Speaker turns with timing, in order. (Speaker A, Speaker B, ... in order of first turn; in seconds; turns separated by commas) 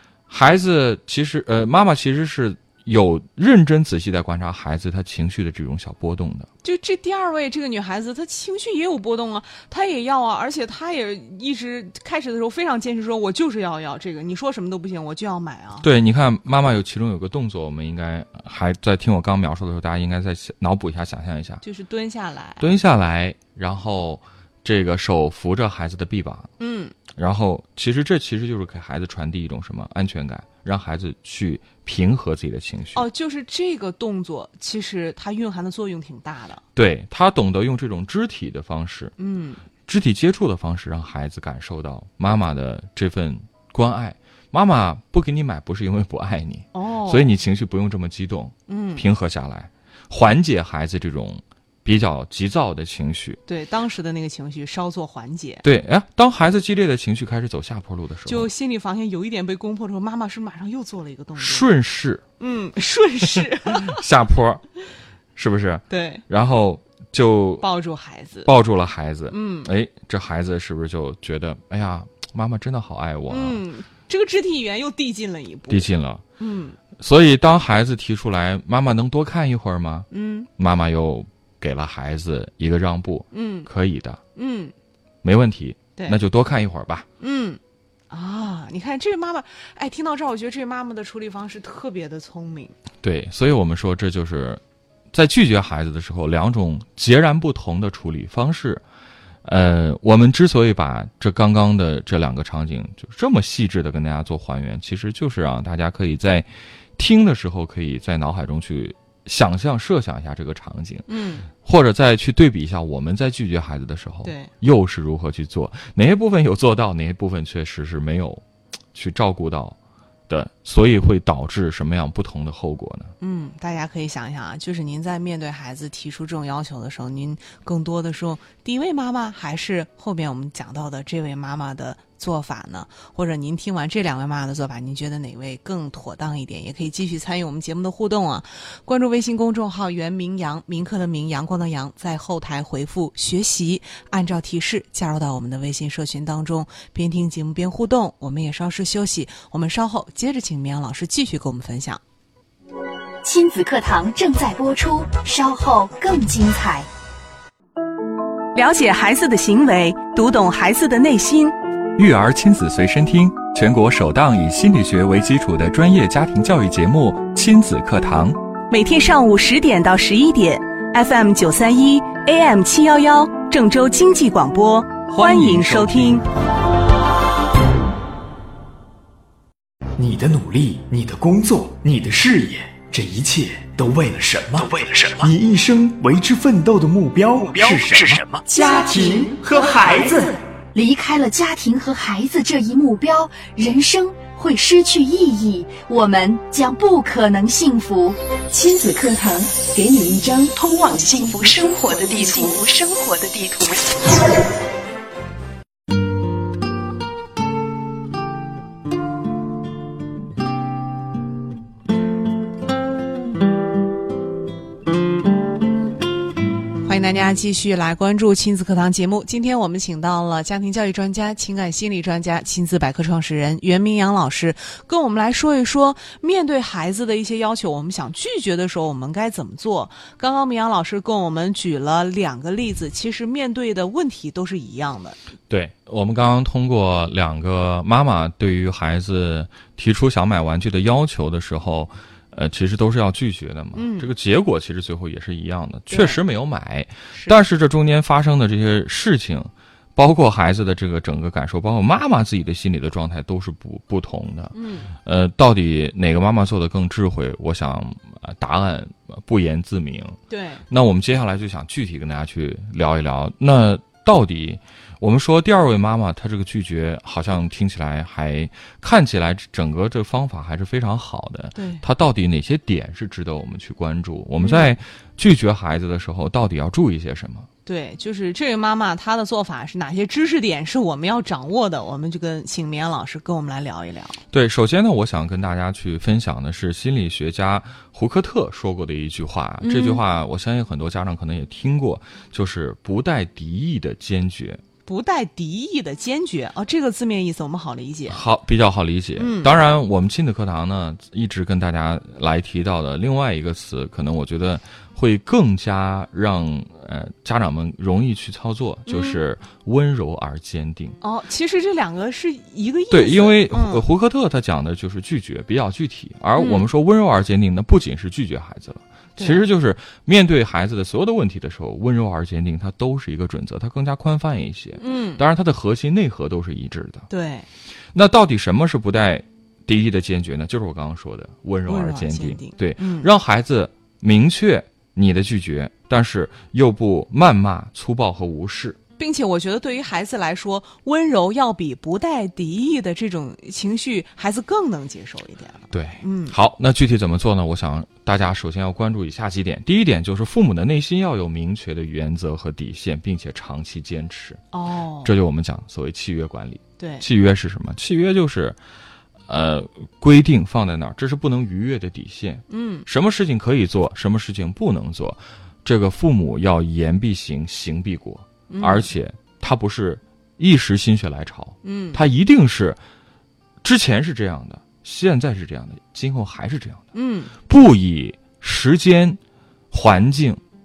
Speaker A: 0.3-6.5, Speaker B: 6.6-15.9, Speaker A: 15.8-21.6, Speaker B: 21.6-22.7, Speaker A: 22.6-26.5, Speaker B: 26.6-26.9, Speaker A: 27.1-33.1, Speaker B: 32.9-36.6, Speaker A: 36.8-39.1, Speaker B: 39.2-39.6, Speaker A: 39.9-53.4, Speaker B: 46.7-47.3, Speaker B: 48.7-49.1, Speaker B: 53.5-55.6, Speaker A: 55.6-58.5, Speaker B: 58.2-61.7, Speaker A: 61.4-62.2, Speaker B: 62.4-64.0, Speaker A: 63.7-64.6, Speaker A: 65.3-67.7, Speaker B: 65.9-66.2, Speaker B: 67.6-68.5, Speaker A: 68.5-73.6, Speaker B: 69.3-69.7, Speaker B: 73.3-76.8, Speaker A: 75.7-76.2, Speaker A: 77.0-84.2, Speaker B: 80.1-80.5, Speaker B: 83.3-83.7, Speaker B: 84.3-84.7, Speaker A: 85.2-87.1, Speaker B: 86.0-86.2, Speaker B: 87.2-92.8, Speaker A: 93.0-94.6, Speaker A: 95.1-98.8, Speaker A: 99.4-118.4, Speaker B: 111.1-111.5, Speaker B: 114.2-114.5, Speaker A: 118.9-119.8, Speaker A: 120.3-123.1, Speaker B: 123.2-152.0, Speaker C: 153.2-156.9, Speaker B: 158.6-161.6, Speaker A: 161.9-168.4, Speaker B: 168.7-176.3, Speaker A: 175.1-176.2, Speaker D: 180.0-190.2, Speaker C: 188.5-190.1, Speaker C: 190.7-202.7, Speaker E: 200.6-204.1, Speaker B: 216.8-235.2, Speaker A: 235.5-260.2, Speaker B: 243.7-244.1, Speaker B: 245.9-246.2, Speaker B: 247.1-247.4, Speaker B: 254.5-254.9, Speaker B: 260.3-260.6, Speaker A: 260.7-277.5, Speaker B: 271.6-271.8, Speaker B: 274.4-274.7, Speaker B: 277.6-284.2, Speaker A: 284.3-294.6, Speaker B: 289.6-290.0, Speaker B: 294.9-298.2, Speaker A: 298.1-311.0, Speaker B: 299.2-299.5, Speaker B: 308.9-309.2, Speaker B: 311.0-313.8, Speaker A: 312.9-327.1, Speaker B: 316.4-316.7, Speaker B: 319.2-319.4, Speaker B: 324.8-325.2, Speaker B: 327.1-327.5, Speaker A: 327.9-338.8, Speaker B: 331.7-333.1, Speaker B: 339.0-346.4, Speaker A: 345.7-354.4, Speaker B: 354.5-355.1, Speaker A: 355.0-358.6, Speaker B: 356.8-357.1, Speaker A: 359.3-372.8, Speaker B: 362.5-362.9, Speaker B: 368.5-368.9, Speaker B: 371.6-372.0, Speaker A: 373.6-376.9, Speaker B: 376.9-377.3, Speaker A: 377.5-379.2, Speaker A: 379.7-380.4